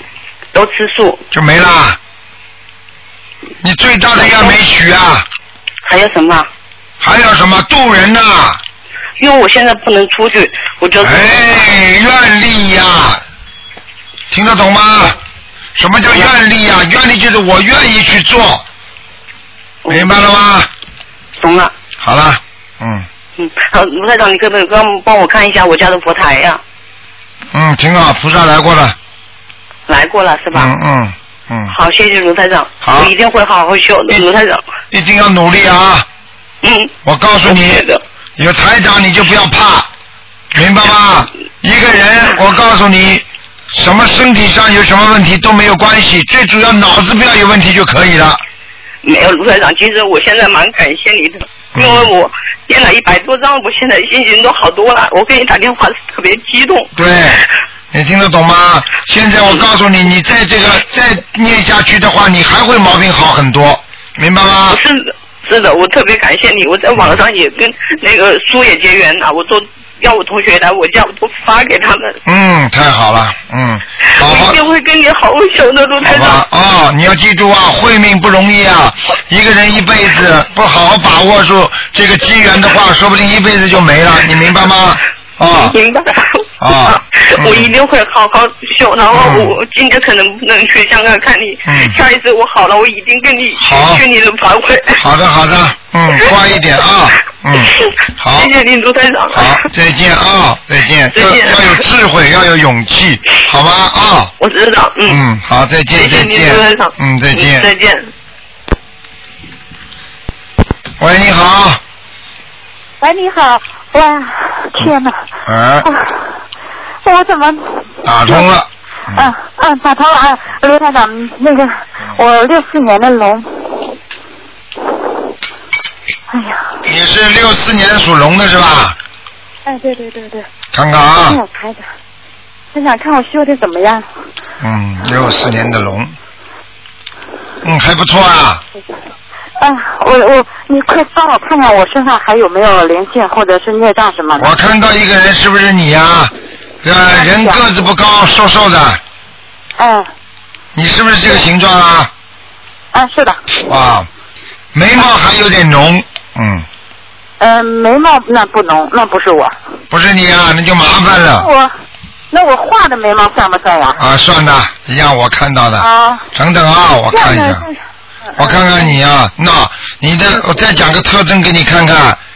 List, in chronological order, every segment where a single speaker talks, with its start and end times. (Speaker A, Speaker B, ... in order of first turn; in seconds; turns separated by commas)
Speaker A: 0.5-1.2, Speaker B: 1.3-2.0, Speaker B: 3.6-5.2, Speaker A: 4.2-4.5, Speaker A: 5.9-6.5, Speaker B: 7.0-8.6, Speaker A: 9.2-11.4, Speaker B: 11.0-13.2, Speaker B: 14.3-15.2, Speaker B: 15.7-18.6, Speaker A: 19.8-20.1, Speaker B: 19.9-20.7, Speaker A: 21.4-21.7, Speaker B: 22.0-23.1, Speaker A: 23.4-26.6, Speaker B: 27.5-28.9, Speaker A: 29.9-30.7, Speaker B: 30.5-31.7, Speaker A: 31.7-34.6, Speaker B: 32.8-33.1, Speaker B: 34.9-36.1, Speaker A: 36.6-38.0, Speaker B: 37.0-37.8, Speaker B: 38.4-39.9, Speaker B: 40.5-48.4, Speaker A: 49.0-56.9, Speaker B: 51.7-52.1, Speaker B: 56.9-64.8, Speaker A: 64.7-72.2, Speaker B: 72.2-74.6, Speaker A: 74.2-76.4, Speaker B: 76.0-85.7, Speaker A: 85.5-95.0, Speaker B: 86.6-87.7, Speaker B: 89.1-89.6, Speaker B: 91.7-92.0, Speaker B: 93.6-94.0, Speaker B: 95.0-98.5, Speaker A: 96.1-96.4, Speaker A: 97.6-99.6, Speaker B: 99.3-104.3, Speaker A: 101.1-101.8, Speaker A: 104.4-105.2, Speaker B: 105.1-107.7, Speaker A: 105.9-108.1, Speaker B: 111.0-111.8, Speaker C: 113.0-115.1, Speaker B: 115.5-115.9, Speaker C: 115.8-116.2, Speaker C: 117.0-118.4, Speaker B: 118.0-119.3, Speaker C: 119.1-123.9, Speaker C: 126.3-126.7, Speaker B: 126.9-128.9, Speaker C: 129.6-130.5, Speaker B: 130.7-131.4, Speaker C: 131.3-131.8, Speaker C: 132.7-134.0, Speaker B: 134.6-136.2, Speaker B: 137.6-138.6, Speaker C: 139.6-144.5, Speaker B: 144.4-146.3, Speaker B: 146.8-149.0, Speaker C: 147.1-147.6, Speaker C: 149.8-150.1, Speaker B: 150.7-152.1, Speaker C: 152.9-153.4, Speaker B: 153.6-154.1, Speaker B: 154.7-156.7, Speaker C: 157.4-159.5, Speaker B: 159.9-161.5, Speaker C: 161.4-161.7, Speaker C: 162.3-164.0, Speaker B: 164.0-167.7, Speaker C: 165.8-166.2, Speaker C: 167.1-167.7, Speaker C: 168.4-168.9, Speaker B: 168.4-172.2